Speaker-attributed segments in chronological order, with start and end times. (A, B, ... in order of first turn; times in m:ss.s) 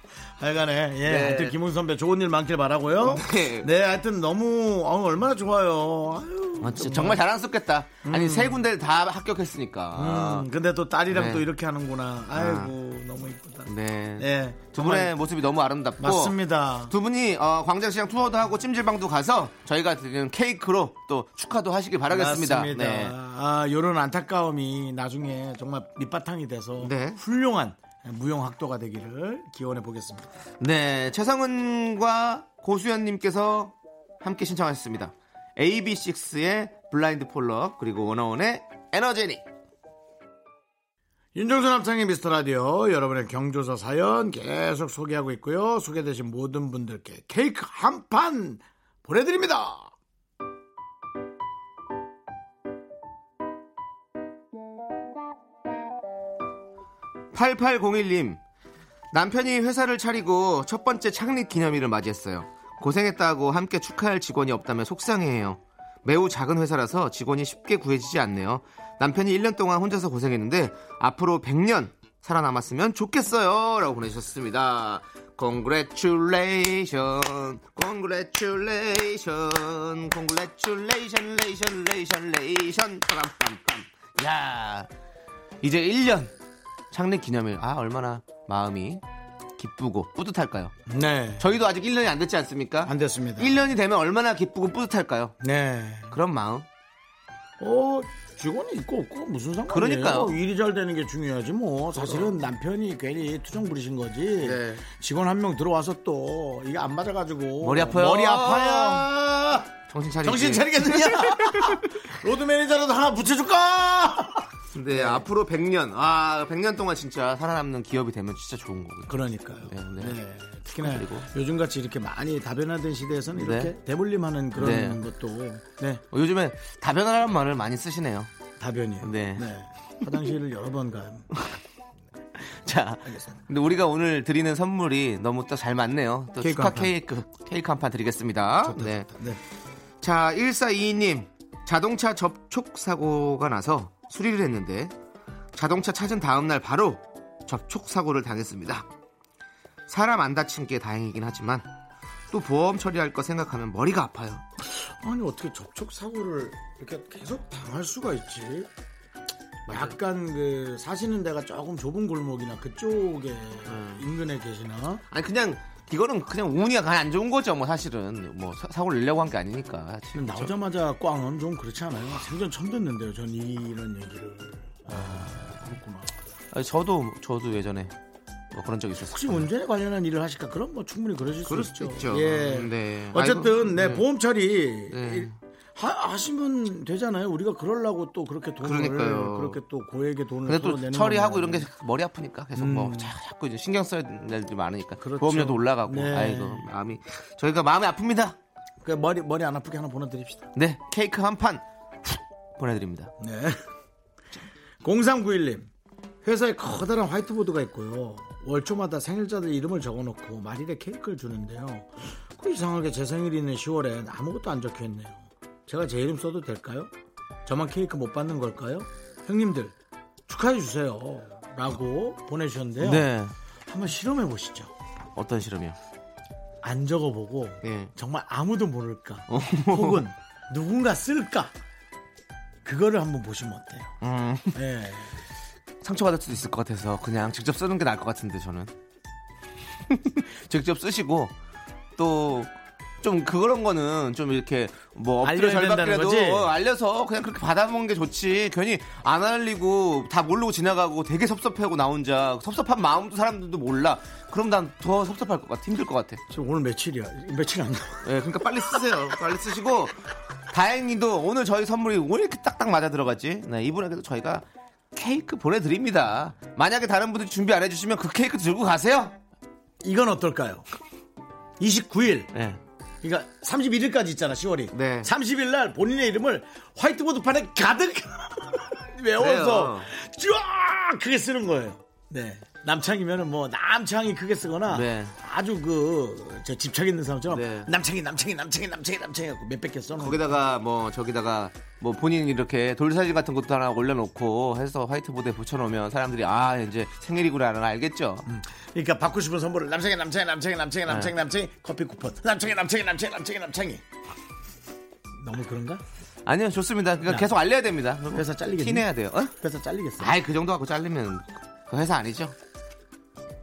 0:00.4-0:07.2 A
0:01.0-0:01.6 B
0:03.0-0:03.7 B
0:06.6-0:10.5 B
0:08.0-0:08.6 A
0:10.0-0:15.1 A
0:11.1-0:11.5 B
0:12.4-0:12.7 B
0:13.6-0:16.4 B
0:16.0-0:16.9 A
0:16.9-0:23.2 B
0:22.1-0:30.3 A
0:26.8-0:27.2 B
0:30.6-0:39.4 B
0:41.4-0:49.9 A
0:57.3-0:58.4 B
0:59.1-1:24.9 B
1:25.6-1:26.3 B
1:26.9-1:29.0 B
1:29.6-1:30.7 B
1:30.9-1:31.5 A
1:31.4-1:35.4 B
1:32.8-1:33.6 A
1:35.4-1:36.2 A
1:36.1-1:36.7 B
1:37.6-1:55.2 A
1:39.7-1:40.4 B
1:42.0-1:42.3 B
1:44.4-1:44.8 B
1:47.6-1:49.1 B
1:49.9-1:52.0 B
1:54.7-2:00.2 B
1:59.1-2:06.0 A
2:00.8-2:01.3 B
2:03.4-2:03.7 B
2:04.6-2:05.0 B
2:06.1-2:08.3 B
2:08.6-2:11.3 A
2:09.0-2:09.5 B
2:12.4-2:19.1 B
2:13.1-2:13.4 A
2:16.4-2:16.9 A
2:18.6-2:19.4 A
2:20.0-2:24.9 B
2:25.6-2:28.9 B
2:29.9-2:31.7 B
2:32.3-2:34.4 B
2:34.6-2:38.7 A
2:39.7-2:40.0 B
2:39.7-2:45.0 A
2:43.7-2:44.0 B
2:45.1-2:50.5 B
2:50.1-2:56.2 A
2:54.9-2:55.3 B
2:56.5-2:57.9 B
2:58.5-2:59.5 B
2:59.1-3:11.7 A
3:01.4-3:04.0 B
3:04.9-3:05.3 B
3:08.6-3:09.6 B
3:10.5-3:18.4 B
3:12.6-3:13.1 A
3:15.0-3:16.7 A
3:18.8-3:20.5 A
3:20.6-3:23.1 B
3:23.2-3:23.6 A
3:24.8-3:25.7 A
3:26.2-3:36.9 A
3:37.5-3:39.8 A
3:40.3-3:43.1 A
3:42.8-3:43.3 B
3:43.7-3:44.7 A
3:45.2-3:45.8 B
3:46.6-3:51.5 A
3:47.6-3:47.9 B
3:49.3-3:50.0 B
3:52.6-3:53.9 A
3:54.0-3:54.6 B
3:54.5-3:55.1 A
3:55.8-3:58.7 B
3:59.9-4:01.3 B
4:02.0-4:02.5 B
4:03.0-4:16.2 B
4:05.2-4:06.5 A
4:16.3-4:18.1 A
4:18.0-4:20.0 B
4:20.5-4:29.2 B
4:29.8-4:30.6 A
4:31.6-4:32.3 A
4:32.3-4:32.6 B
4:33.0-4:50.3 A
4:34.7-4:35.1 B
4:39.2-4:39.9 B
4:44.7-4:45.1 B
4:47.3-4:47.7 B
4:50.0-4:58.3 B
4:58.3-5:03.8 A
5:05.2-5:05.8 A
5:06.3-5:09.3 B
5:07.0-5:07.3 A
5:08.1-5:10.2 A
5:10.0-5:12.4 B